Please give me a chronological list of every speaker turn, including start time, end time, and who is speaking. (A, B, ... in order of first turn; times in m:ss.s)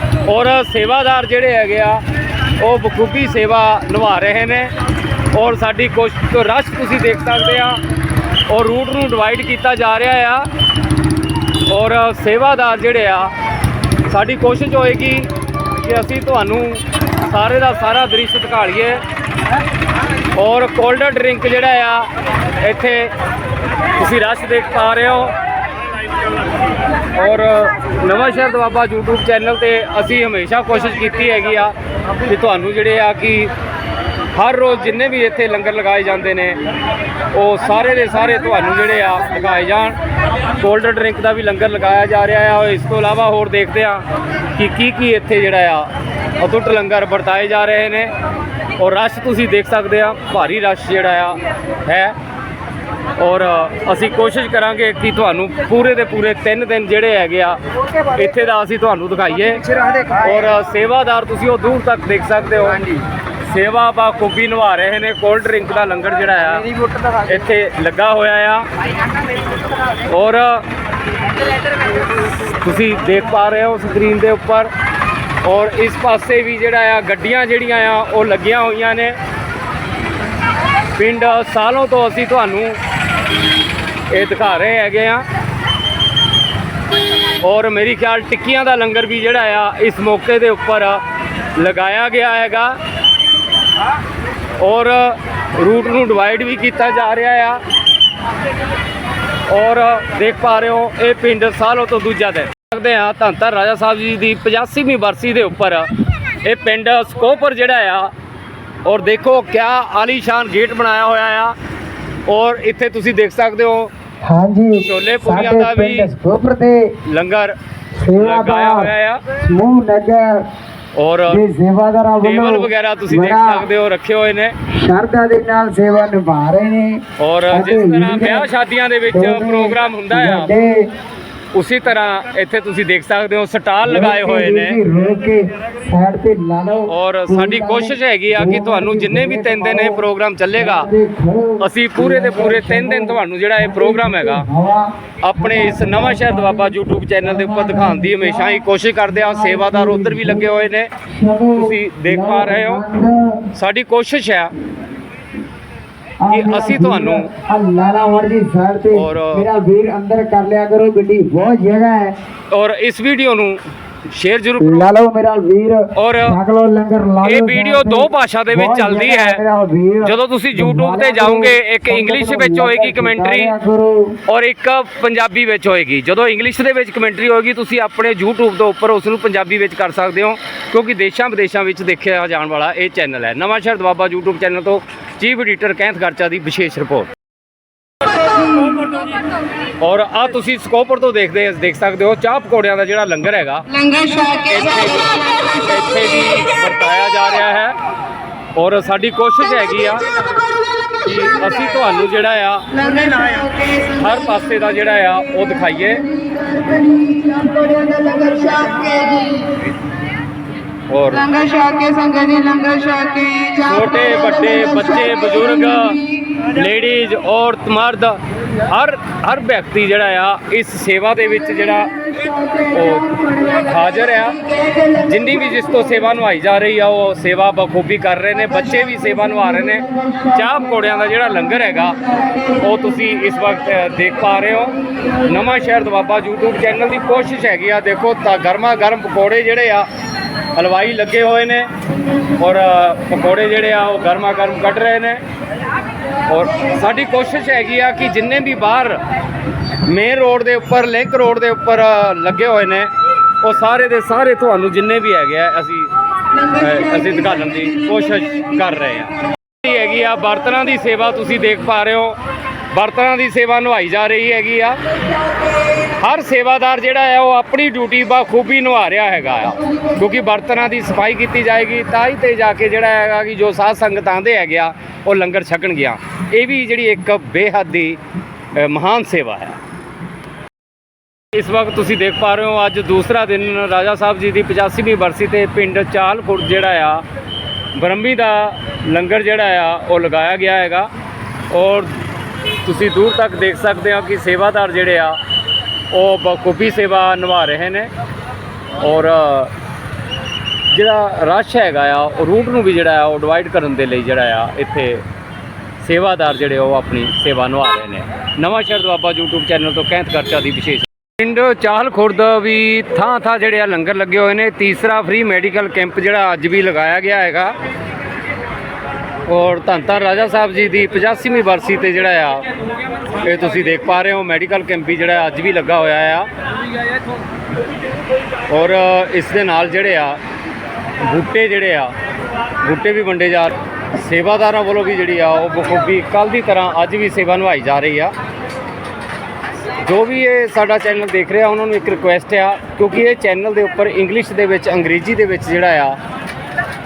0:00.2-0:02.0 A
0:02.6-0:04.7 A
0:05.3-0:07.8 A
0:08.5-0:10.5 A
0:11.7-0:13.3 A
0:14.1-0:19.0 A
0:20.3-0:22.1 A
0:22.6-0:23.1 A
0:24.0-0:25.3 A
0:27.1-0:31.7 A
0:32.2-0:33.5 A
0:34.3-0:36.6 A
0:37.3-0:40.0 A
0:40.6-0:44.0 A
0:44.5-0:45.9 A
0:46.4-0:48.1 A
0:48.8-0:52.1 A
0:53.2-1:02.9 A
1:03.4-1:08.6 A
1:10.0-1:10.6 A
1:12.6-1:14.7 A
1:15.4-1:19.2 A
1:21.0-1:22.8 A
1:24.1-1:25.2 A
1:27.4-1:31.0 A
1:31.6-1:32.8 A
1:34.6-1:37.6 A
1:39.5-1:45.9 A
1:46.4-1:48.1 A
1:48.8-1:51.5 A
1:52.3-1:53.9 A
1:54.2-1:56.9 B
1:54.8-1:56.1 A
1:57.0-1:57.5 A
1:58.0-2:00.4 B
1:58.2-1:59.2 A
2:01.0-2:01.4 A
2:01.3-2:03.7 B
2:02.2-2:04.5 A
2:04.7-2:08.5 B
2:07.2-2:10.5 A
2:09.1-2:10.9 B
2:11.5-2:14.8 A
2:13.8-2:20.0 B
2:16.9-2:20.9 A
2:20.5-2:33.4 B
2:21.6-2:24.4 A
2:25.2-2:30.9 A
2:31.6-2:32.8 A
2:33.5-2:34.5 A
2:36.2-2:42.1 B
2:36.3-2:37.3 A
2:38.9-2:39.5 A
2:42.5-2:44.9 A
2:44.6-2:54.2 B
2:45.9-2:46.4 A
2:47.2-2:49.4 A
2:50.0-2:53.5 A
2:54.2-3:07.1 A
3:09.8-3:17.7 A
3:18.6-3:20.0 A
3:21.0-3:26.1 A
3:26.6-3:29.5 C
3:30.9-3:31.5 A
3:31.5-3:33.5 C
3:33.4-3:59.9 A
4:00.5-4:01.7 A
4:02.4-4:05.2 A
4:06.3-4:09.0 A
4:09.8-4:12.9 A
4:13.4-4:22.2 A
4:22.7-4:24.8 A
4:26.0-4:38.0 A
4:38.5-4:39.6 A
4:41.3-4:47.0 A
4:47.7-4:50.9 A
4:51.5-4:51.9 A
4:52.6-4:55.2 A
4:55.9-4:57.9 A
4:58.8-4:59.5 A
5:00.7-5:05.0 A
5:05.8-5:17.6 A
5:19.2-5:22.4 A
5:23.2-5:26.3 A
5:28.5-5:30.2 A
5:31.0-5:31.9 A
5:32.6-5:38.1 A
5:39.8-5:46.0 A